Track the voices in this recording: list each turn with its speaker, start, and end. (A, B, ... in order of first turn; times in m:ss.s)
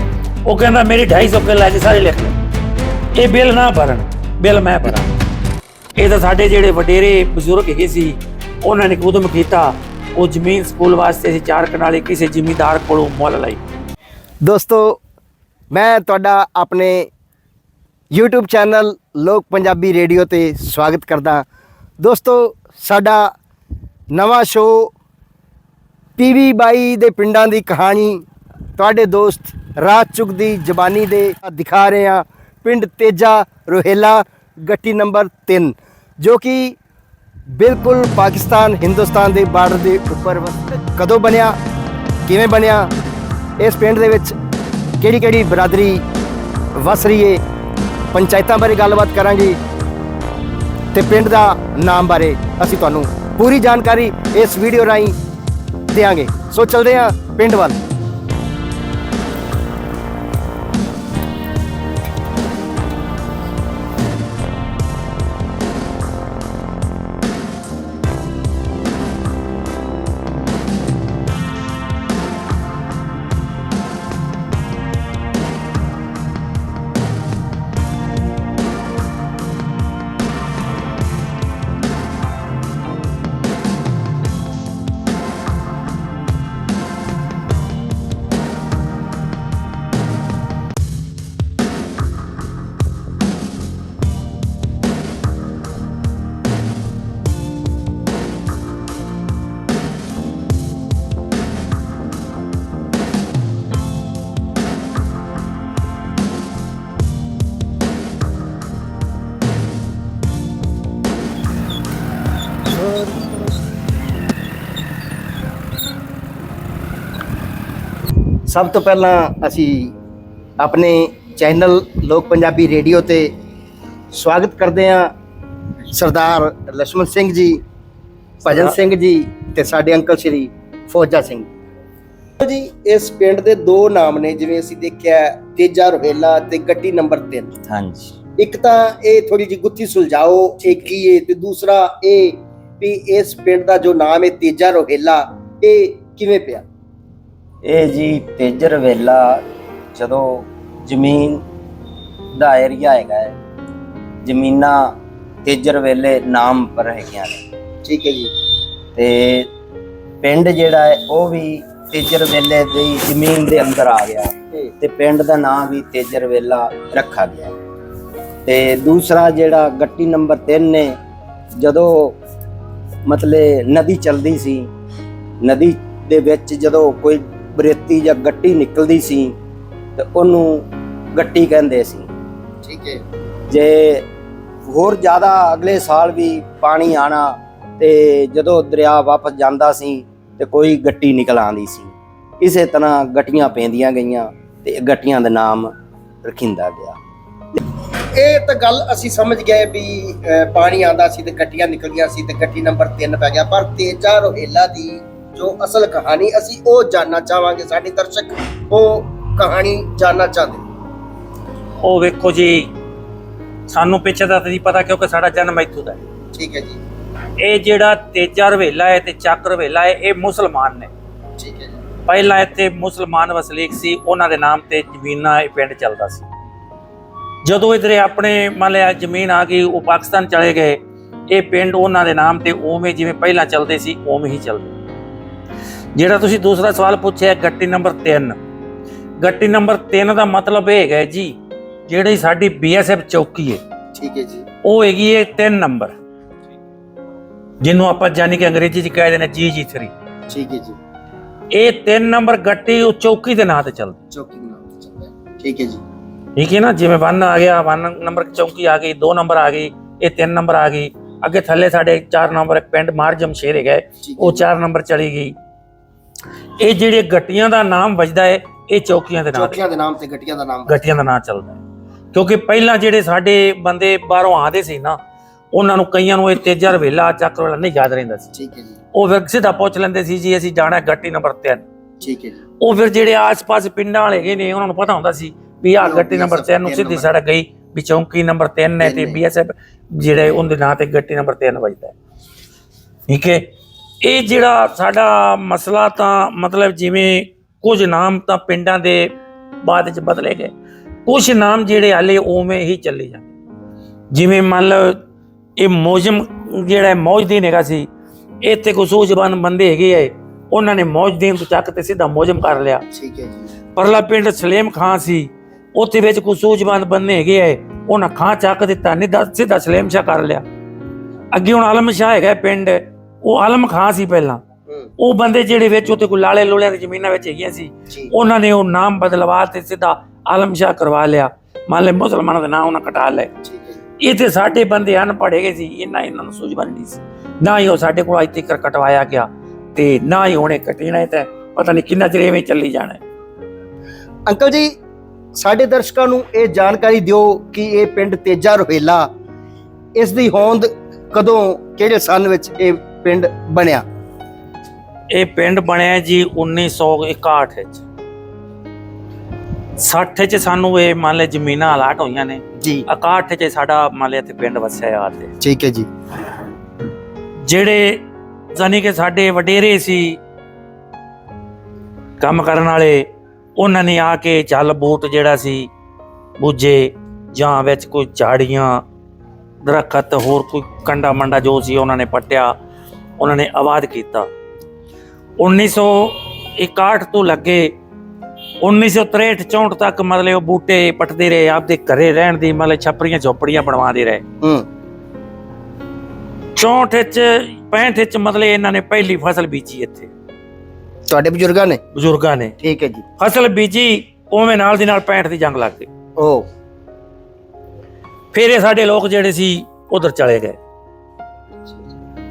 0:00.4-0:02.4 A
0:03.2-0:05.2 A
0:06.0-0:13.6 A
0:14.4-0:15.0 B
0:15.7-0:17.1 B
0:18.1-0:21.4 B
0:22.0-0:23.3 B
0:24.1-0:24.9 B
0:26.2-0:28.2 B
0:28.8-0:36.8 B
0:37.5-0:41.6 B
0:42.3-0:42.9 B
0:43.6-0:44.3 B
0:45.0-0:46.0 B
0:46.8-0:47.4 B
0:48.1-0:49.6 B
0:50.9-0:55.2 B
0:55.9-0:57.8 B
1:52.7-1:53.6 B
1:58.5-2:00.0 B
2:00.6-2:03.3 B
2:04.1-2:05.1 B
2:05.9-2:07.6 B
2:08.4-2:11.5 B
2:12.4-2:17.5 B
2:17.6-2:18.2 C
2:18.4-2:26.6 B
2:20.6-2:20.9 C
2:27.6-2:31.4 C
2:32.3-2:33.4 C
2:34.2-2:37.4 C
2:37.8-2:38.3 B
2:38.9-2:39.5 C
2:40.2-2:47.5 C
2:48.4-2:51.0 C
2:51.6-2:52.2 C
2:53.1-2:54.7 C
2:55.4-2:59.3 C
3:00.0-3:02.1 C
3:02.6-3:03.0 B
3:03.5-3:04.1 C
3:04.7-3:17.0 C
3:18.1-3:30.6 B
3:31.8-3:32.7 A
3:33.7-3:36.0 A
3:36.3-3:36.8 B
3:37.4-3:40.9 A
3:41.4-3:41.8 B
3:42.1-3:46.3 A
3:47.4-3:50.8 A
3:51.3-3:54.8 A
3:56.0-3:58.4 A
3:59.2-4:01.4 A
4:01.9-4:03.6 A
4:03.9-4:04.4 B
4:04.6-4:05.9 A
4:07.6-4:09.9 A
4:10.3-4:10.8 B
4:11.5-4:14.0 A
4:14.1-4:15.8 B
4:16.4-4:25.4 A
4:24.0-4:24.4 B
4:26.6-4:29.6 A
4:29.3-4:30.8 B
4:30.7-4:31.6 A
4:32.1-4:35.0 A
4:35.5-4:38.3 A
4:38.3-4:38.8 B
4:38.9-4:41.7 A
4:42.0-4:42.4 B
4:42.6-4:51.9 A
4:45.8-4:47.1 B
4:48.8-4:49.2 B
4:53.1-4:53.5 A
4:54.0-5:00.5 A
5:01.1-5:03.3 A
5:04.1-5:05.0 A
5:05.6-5:07.9 A
5:08.4-5:12.8 A
5:12.9-5:13.5 B
5:13.8-5:20.4 A
5:21.3-5:24.4 A
5:25.0-5:33.3 A
5:33.4-5:33.8 B
5:34.0-5:43.0 A
5:44.3-5:44.8 B
5:45.4-5:49.1 B
5:49.9-5:53.8 B
5:55.1-5:57.8 A
5:59.8-6:05.3 A
6:02.6-6:02.9 B
6:05.4-6:05.9 B
6:07.4-6:08.0 A
6:08.6-6:10.2 A
6:12.2-6:15.7 A
6:16.4-6:18.8 A
6:19.6-6:22.5 A
6:23.2-6:24.3 A
6:25.4-6:27.8 A
6:28.6-6:34.2 A
6:36.6-6:40.1 A
6:41.1-6:41.8 B
6:41.9-6:42.5 A
6:42.6-6:43.1 B
6:43.2-6:45.9 A
6:46.2-6:46.5 B
6:48.3-6:50.6 A